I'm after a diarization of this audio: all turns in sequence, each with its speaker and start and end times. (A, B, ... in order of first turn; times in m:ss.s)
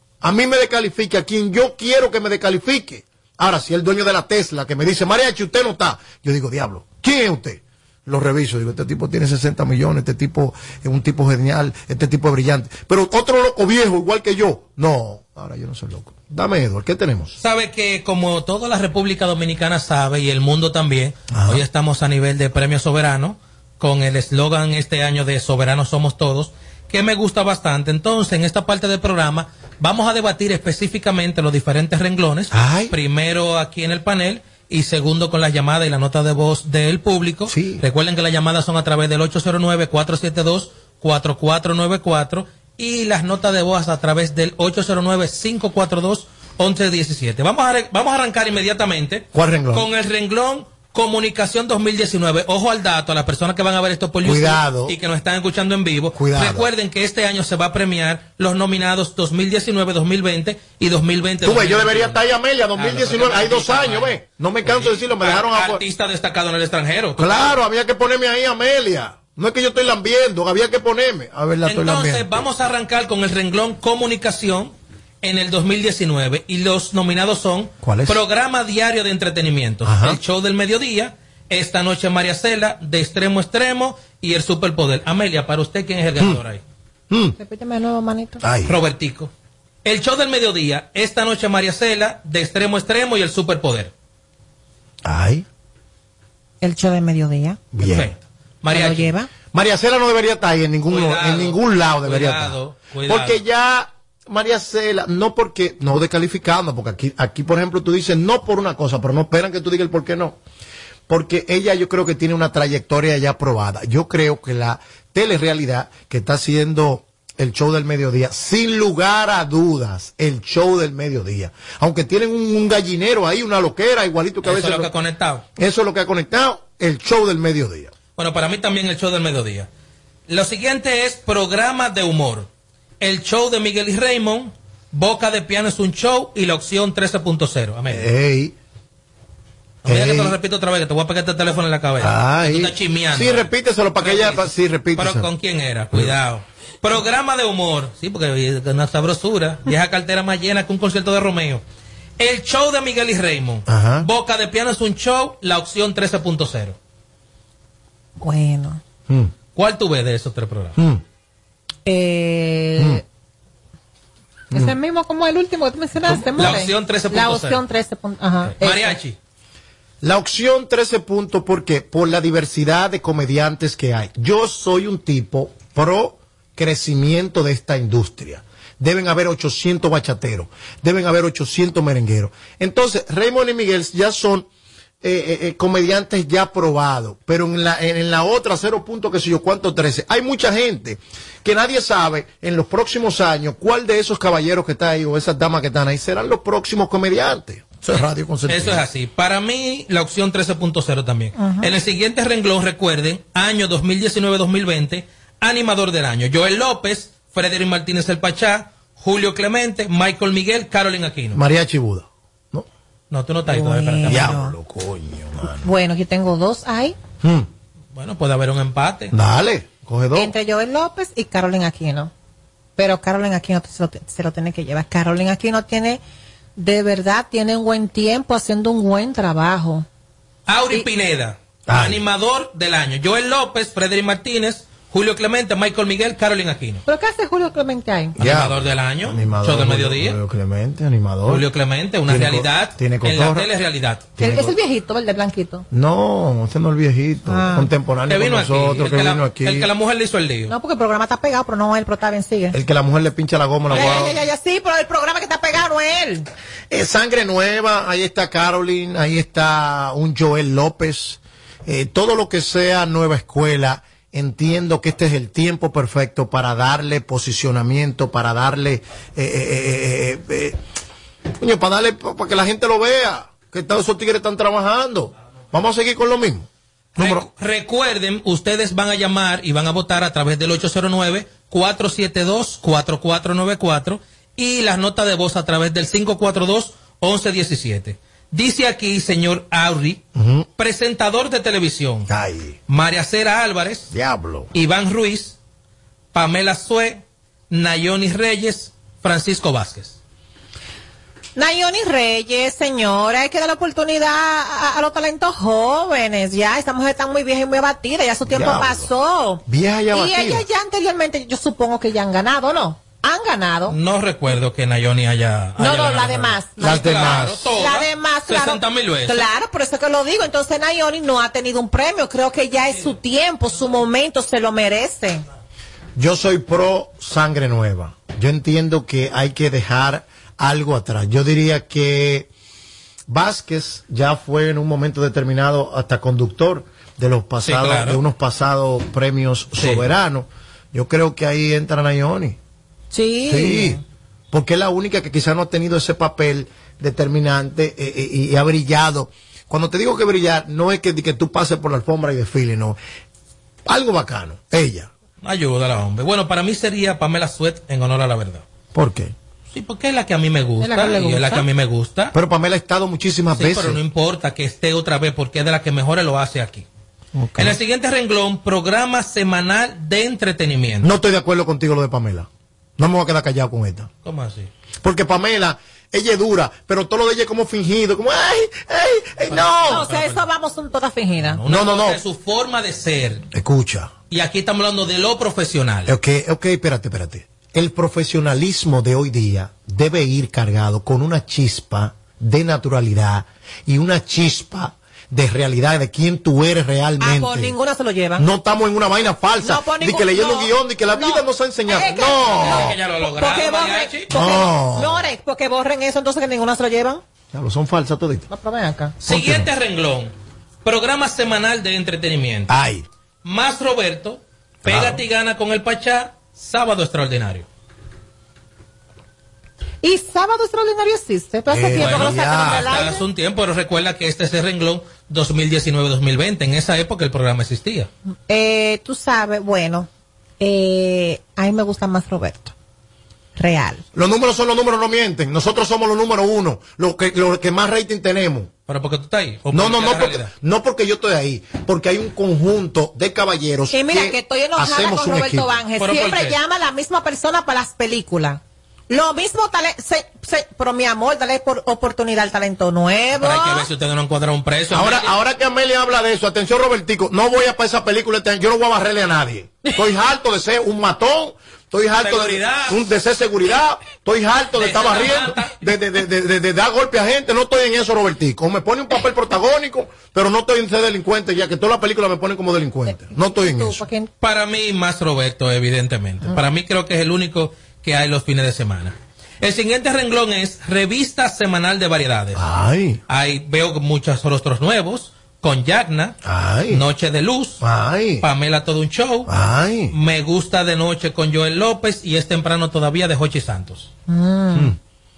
0:00.2-0:17.4 A
0:17.4-1:02.2 B
0:21.3-0:21.6 A
0:32.5-0:32.9 A
0:37.5-0:37.8 A
0:49.3-0:49.9 A
0:54.2-0:55.0 A
0:56.1-0:56.7 A
1:01.4-1:05.8 A
1:02.8-1:07.5 B
1:07.2-1:12.4 A
1:11.7-1:26.6 B
1:17.8-1:18.2 A
1:19.8-1:20.2 A
1:27.1-1:27.4 A
1:27.4-1:28.4 C
1:28.4-1:28.8 A
1:28.7-1:29.3 B
1:29.8-1:33.9 B
1:35.0-1:35.5 A
1:36.6-1:37.6 C
1:37.7-1:38.1 A
1:37.8-1:39.1 B
1:38.7-1:39.3 C
1:39.5-1:50.4 A
1:40.9-1:43.4 B
1:51.1-2:04.9 A
2:04.4-2:05.4 B
2:05.6-2:07.9 A
2:08.2-2:09.7 B
2:10.3-2:12.5 B
2:13.0-2:18.1 B
2:17.9-2:18.6 A
2:19.8-2:20.4 A
2:19.8-2:31.6 B
2:22.0-2:25.3 A
2:32.2-2:36.8 B
2:33.7-2:34.1 A
2:38.2-2:38.8 C
2:39.6-2:40.8 B
2:40.8-2:41.0 A
2:41.9-2:43.0 C
2:42.8-2:43.0 A
2:44.5-2:49.0 C
2:46.1-2:46.6 A
2:46.2-2:47.6 B
2:48.5-2:49.2 B
2:50.0-3:04.5 A
3:05.0-3:18.8 A
3:18.5-3:31.4 B
3:21.4-3:21.7 C
3:31.3-3:32.7 A
3:33.1-3:34.4 B
3:33.5-3:34.6 C
3:34.1-3:35.7 A
3:35.6-3:37.0 C
3:37.2-3:37.5 A
3:38.0-3:39.1 B
3:39.1-3:40.3 A
3:40.2-3:42.1 C
3:42.8-3:46.0 C
3:46.6-3:49.9 C
3:50.5-3:56.8 B
3:51.7-3:52.0 A
3:56.9-3:58.2 C
3:58.2-4:01.4 A
3:58.2-4:00.2 B
4:01.3-4:04.1 B
4:02.1-4:03.5 A
4:04.2-4:04.6 A
4:04.2-4:05.6 C
4:05.7-4:09.7 A
4:07.3-4:07.7 C
4:08.1-4:10.5 B
4:10.5-4:12.6 C
4:12.5-4:14.2 A
4:13.7-4:16.3 C
4:13.7-4:14.1 B
4:16.7-4:30.6 A
4:31.4-4:37.3 A
4:37.0-4:50.0 B
4:50.2-4:50.5 A
4:50.6-4:52.1 B
4:52.1-4:52.6 A
4:52.7-4:53.9 B
4:53.9-4:54.5 A
4:54.5-4:55.4 B
4:56.1-5:00.0 B
5:01.4-5:09.4 C
5:08.3-5:08.9 A
5:09.5-5:10.5 A
5:09.9-5:13.8 C
5:13.7-5:19.3 B
5:15.6-5:16.9 C
5:16.6-5:17.5 A
5:17.6-5:25.2 C
5:26.0-5:32.3 A
5:33.1-5:42.4 A
5:37.4-5:38.0 B
5:39.6-5:39.8 B
5:42.9-5:43.8 C
5:43.3-5:43.8 A
5:44.3-5:52.8 A
5:53.7-5:54.9 A
5:55.2-5:58.4 B
5:58.7-5:59.1 A
5:59.5-6:02.1 B
6:00.6-6:01.5 C
6:02.1-6:03.8 A
6:03.4-6:06.7 B
6:07.2-6:07.6 A
6:07.4-6:10.9 B
6:10.8-6:13.9 A
6:14.0-6:14.5 B
6:14.8-6:19.8 A
6:19.3-6:20.3 B
6:19.7-6:21.4 C
6:21.4-6:23.3 B
6:21.5-6:22.0 A
6:23.3-6:23.9 A
6:24.1-6:26.0 B
6:25.9-6:37.6 A
6:37.0-6:38.2 C
6:38.2-6:42.8 A
6:39.4-6:47.0 C
6:42.4-6:44.1 B
6:44.1-6:45.0 A
6:47.3-6:48.3 A
6:48.3-6:49.0 C
6:49.0-6:50.1 B
6:49.1-6:49.5 A
6:50.6-6:52.5 B
6:52.5-6:52.9 A
6:53.2-6:57.5 B
6:54.6-6:55.0 A
6:59.8-7:03.0 C
7:01.5-7:02.8 A
7:01.8-7:07.9 B
7:08.3-7:09.9 C
7:10.4-7:12.5 C
7:13.4-7:13.8 C
7:13.9-7:18.5 A
7:18.7-7:20.3 B
7:19.5-7:25.6 A
7:23.7-7:33.7 C
7:25.8-7:26.4 B
7:33.2-7:35.2 B
7:34.7-7:53.8 A
7:42.0-7:42.8 B
7:44.6-7:45.6 B
7:53.4-7:54.1 C
7:54.2-8:02.4 B
8:02.4-8:03.0 A
8:03.1-8:06.2 B
8:06.2-8:06.8 A
8:06.7-8:07.6 B
8:07.6-8:08.3 A
8:08.2-8:09.3 B
8:09.3-8:10.0 A
8:09.9-8:13.9 B
8:14.1-8:14.7 C